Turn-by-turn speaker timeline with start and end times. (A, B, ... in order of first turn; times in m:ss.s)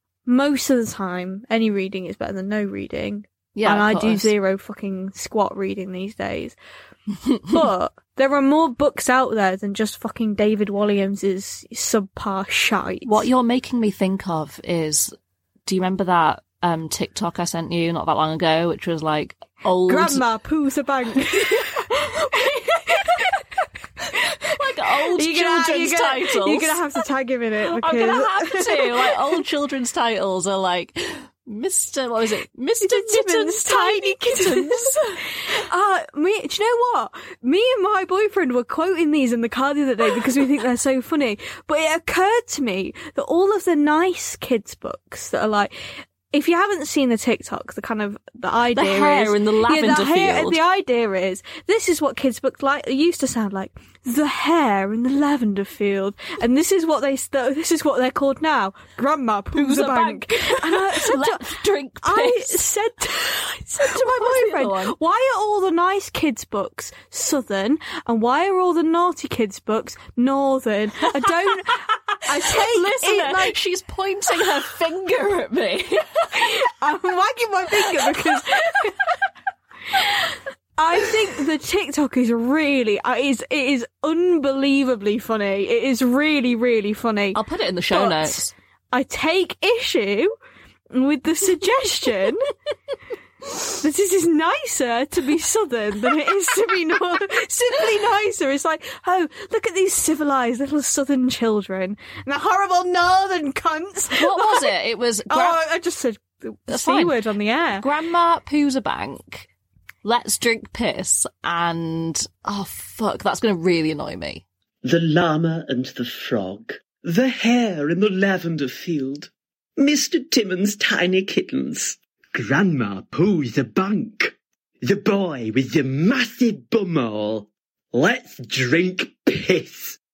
0:00.3-0:06.6 A
0:03.6-0:04.3 B
0:07.3-0:07.6 B
0:07.5-0:13.2 A
0:13.0-0:15.1 B
0:15.7-0:20.2 B
0:19.9-0:23.3 A
0:24.4-0:26.8 B
0:25.1-0:29.4 A
0:27.7-0:35.0 B
0:32.8-0:45.7 A
0:46.3-1:01.5 A
0:48.8-0:50.6 B
0:59.6-1:02.6 B
1:02.0-1:13.6 A
1:03.8-1:05.0 B
1:11.9-1:16.4 B
1:16.3-1:19.0 A
1:20.0-1:27.4 A
1:27.4-1:28.5 B
1:27.9-1:30.3 A
1:30.9-1:32.5 A
1:33.7-1:44.7 A
1:44.2-1:45.6 B
1:45.3-1:47.8 A
1:46.7-1:47.2 B
1:47.8-1:49.5 B
1:50.0-1:54.4 B
1:54.8-2:10.0 C